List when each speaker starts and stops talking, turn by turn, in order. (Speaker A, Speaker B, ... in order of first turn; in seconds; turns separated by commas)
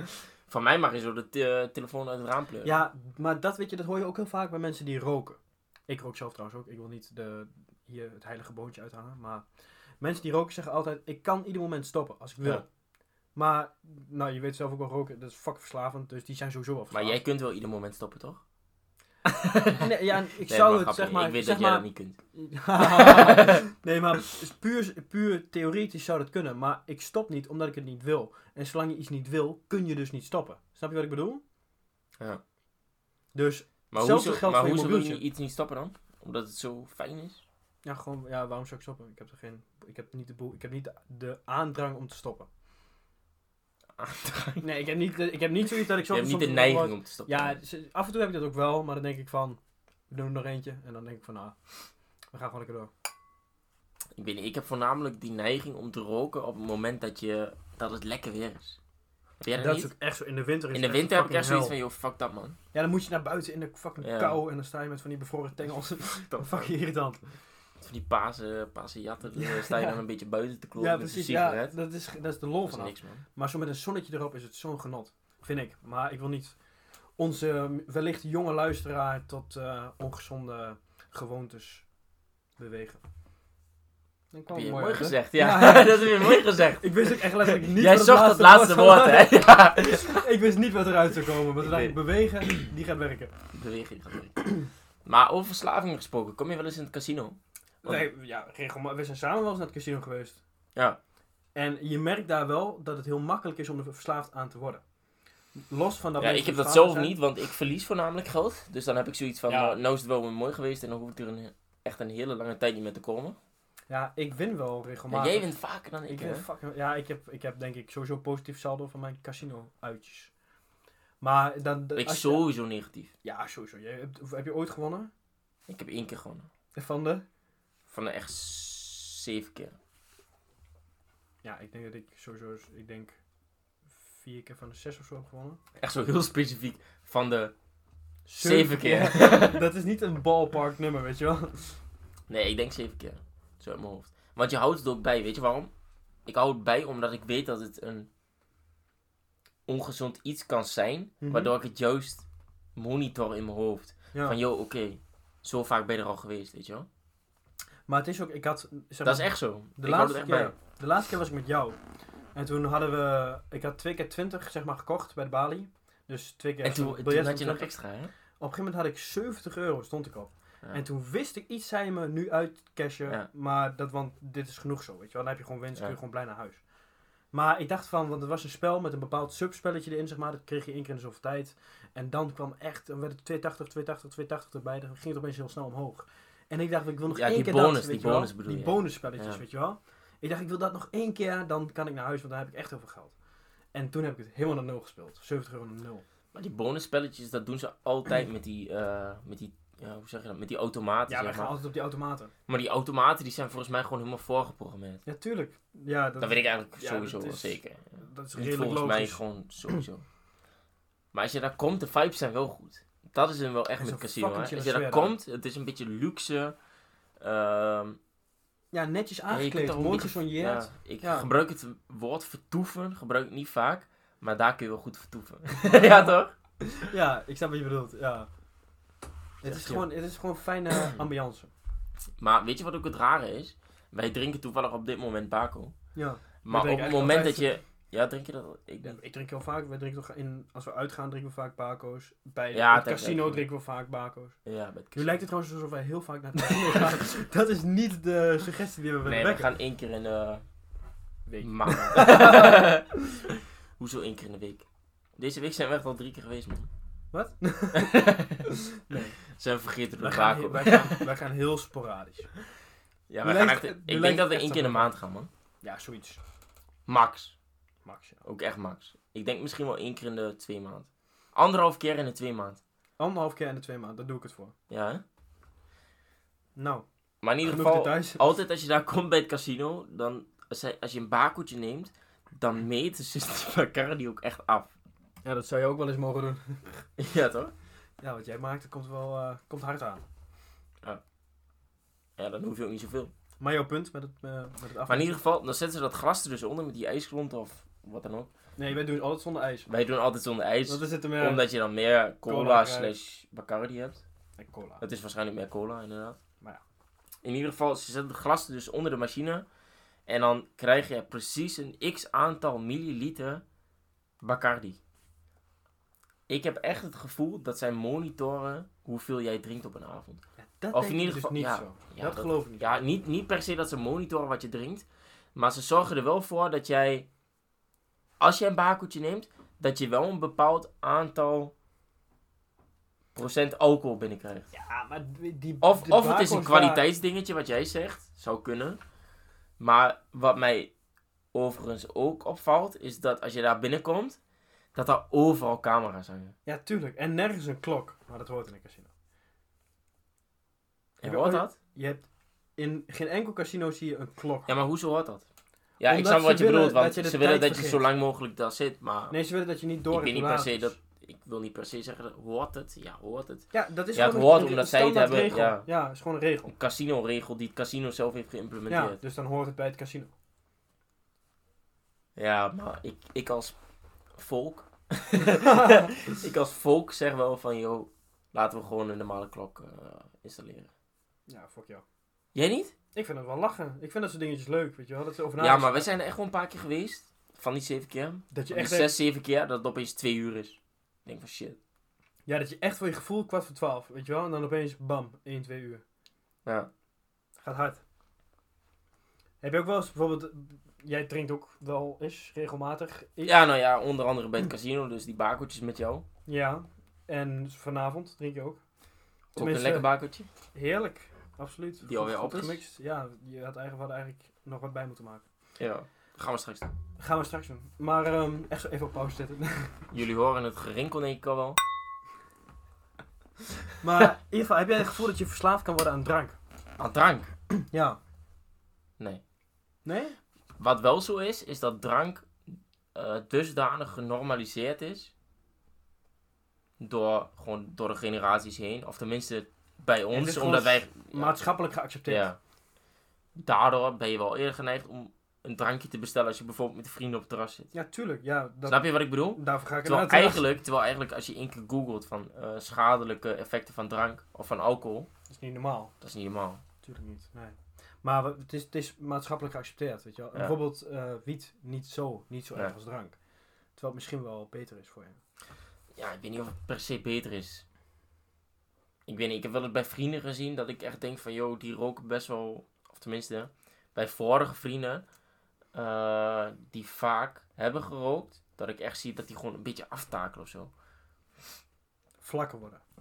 Speaker A: 0.5-2.7, Speaker B: 2.6-9.4, Speaker B: 10.0-12.7, Speaker B: 13.3-17.2, Speaker A: 16.9-18.4, Speaker A: 19.4-19.9, Speaker B: 19.6-31.4, Speaker A: 20.5-22.2, Speaker A: 22.8-23.6, Speaker B: 33.3-35.2, Speaker A: 33.9-37.4, Speaker B: 37.8-42.5, Speaker A: 44.0-44.7, Speaker B: 44.6-51.5, Speaker A: 45.9-47.6, Speaker B: 52.3-52.9, Speaker A: 54.1-58.8, Speaker A: 59.4-59.9, Speaker B: 59.5-61.7, Speaker A: 60.7-62.6, Speaker B: 62.7-67.2, Speaker A: 64.0-64.4, Speaker A: 66.3-66.7, Speaker A: 67.8-71.7, Speaker B: 69.4-70.0, Speaker B: 70.8-76.5, Speaker A: 72.6-73.2, Speaker B: 77.2-81.8, Speaker B: 82.6-83.0, Speaker B: 84.3-93.3, Speaker A: 84.5-90.2, Speaker A: 91.6-92.7, Speaker A: 93.5-94.3, Speaker B: 94.4-94.7, Speaker A: 95.0-98.0, Speaker B: 97.8-100.4, Speaker B: 101.5-104.8, Speaker B: 105.5-107.1, Speaker A: 106.2-113.4, Speaker B: 109.5-109.8, Speaker B: 113.9-115.5, Speaker A: 115.1-116.4, Speaker B: 116.0-120.3, Speaker B: 121.2-122.4, Speaker A: 122.0-123.1, Speaker B: 123.2-125.1, Speaker A: 125.7-126.5, Speaker B: 126.7-127.2, Speaker A: 127.9-129.7, Speaker B: 131.4-133.2, Speaker B: 134.0-135.6, Speaker A: 135.8-137.5, Speaker B: 138.3-141.8, Speaker A: 138.4-139.6, Speaker A: 142.3-145.7, Speaker A: 146.2-148.1, Speaker A: 149.7-156.9, Speaker B: 151.2-151.5, Speaker B: 157.9-161.8, Speaker A: 159.0-160.5, Speaker B: 162.3-167.7, Speaker A: 166.6-168.1, Speaker B: 168.4-176.6, Speaker B: 177.3-193.1, Speaker A: 187.1-189.4, Speaker B: 193.7-196.0, Speaker A: 196.3-201.5, Speaker B: 201.1-202.3, Speaker A: 202.5-205.0, Speaker B: 205.1-209.2, Speaker A: 206.2-210.0, Speaker A: 211.1-216.6, Speaker B: 213.8-215.1, Speaker A: 217.2-218.0, Speaker B: 218.7-221.3, Speaker A: 219.3-226.3, Speaker B: 225.6-226.0, Speaker B: 226.7-228.3, Speaker B: 229.4-231.5, Speaker A: 229.4-229.8, Speaker A: 232.2-235.7, Speaker B: 235.9-237.5, Speaker A: 236.4-239.0, Speaker B: 238.8-244.4, Speaker A: 242.5-243.4, Speaker A: 244.4-245.2, Speaker B: 244.9-249.5, Speaker A: 246.4-246.9, Speaker A: 249.0-250.4, Speaker B: 251.3-252.8, Speaker A: 251.4-254.7, Speaker A: 255.2-256.7, Speaker B: 257.1-259.2, Speaker A: 257.7-258.5, Speaker A: 259.3-261.1, Speaker B: 260.0-262.3, Speaker A: 263.1-265.3, Speaker B: 263.2-264.9, Speaker B: 265.6-266.2, Speaker A: 266.9-267.3, Speaker B: 267.8-268.2, Speaker A: 268.2-272.6, Speaker B: 273.0-274.5, Speaker A: 274.7-275.0, Speaker B: 276.6-276.8, Speaker A: 277.2-284.7, Speaker B: 277.4-278.2, Speaker B: 285.2-286.8, Speaker A: 287.0-287.5, Speaker B: 288.0-290.0, Speaker A: 292.2-293.1, Speaker B: 293.4-295.2, Speaker A: 294.9-298.3, Speaker B: 298.6-299.7, Speaker A: 299.7-304.0, Speaker B: 300.7-301.5, Speaker B: 302.2-302.9, Speaker B: 304.4-304.8, Speaker A: 304.8-306.2, Speaker A: 307.2-309.4, Speaker A: 310.1-313.4, Speaker A: 314.2-314.8, Speaker A: 316.3-320.2, Speaker B: 320.4-322.8, Speaker A: 320.7-327.1, Speaker A: 328.2-331.5, Speaker A: 333.1-334.5, Speaker B: 334.5-336.8, Speaker A: 335.6-338.8, Speaker A: 339.6-340.7, Speaker A: 341.3-344.2, Speaker A: 344.7-346.3, Speaker B: 346.4-348.9, Speaker A: 351.0-351.5, Speaker B: 351.0-352.0, Speaker B: 352.6-354.5, Speaker A: 354.5-355.2, Speaker A: 355.8-359.1, Speaker B: 355.9-357.8, Speaker B: 359.1-360.8, Speaker A: 359.9-365.7, Speaker B: 363.5-366.5, Speaker A: 366.5-369.0, Speaker B: 368.7-370.1, Speaker A: 372.1-373.6, Speaker A: 374.1-380.7, Speaker B: 375.3-375.9, Speaker B: 381.3-381.8, Speaker A: 382.3-382.7, Speaker B: 382.9-385.9, Speaker A: 385.4-391.6, Speaker B: 388.3-388.9, Speaker B: 392.3-395.8, Speaker A: 396.4-396.7, Speaker B: 397.4-397.8, Speaker B: 399.4-403.4, Speaker A: 403.2-406.0, Speaker B: 406.3-408.6, Speaker A: 409.3-410.3, Speaker B: 409.4-409.9, Speaker B: 410.5-415.2, Speaker A: 411.8-412.6, Speaker A: 415.6-416.7, Speaker B: 417.0-419.8, Speaker A: 419.9-421.6, Speaker B: 423.8-426.4, Speaker A: 426.8-427.3, Speaker B: 427.5-428.0, Speaker B: 429.8-430.2, Speaker A: 430.6-435.1, Speaker A: 436.8-441.4, Speaker B: 440.1-442.3, Speaker A: 442.1-442.4, Speaker A: 443.3-447.7, Speaker B: 447.7-450.4, Speaker A: 448.7-455.1, Speaker B: 455.3-455.9, Speaker A: 456.0-456.6, Speaker B: 456.8-463.1, Speaker B: 463.8-465.2, Speaker A: 465.9-467.6, Speaker A: 469.1-475.0, Speaker A: 475.7-480.7, Speaker B: 482.2-482.8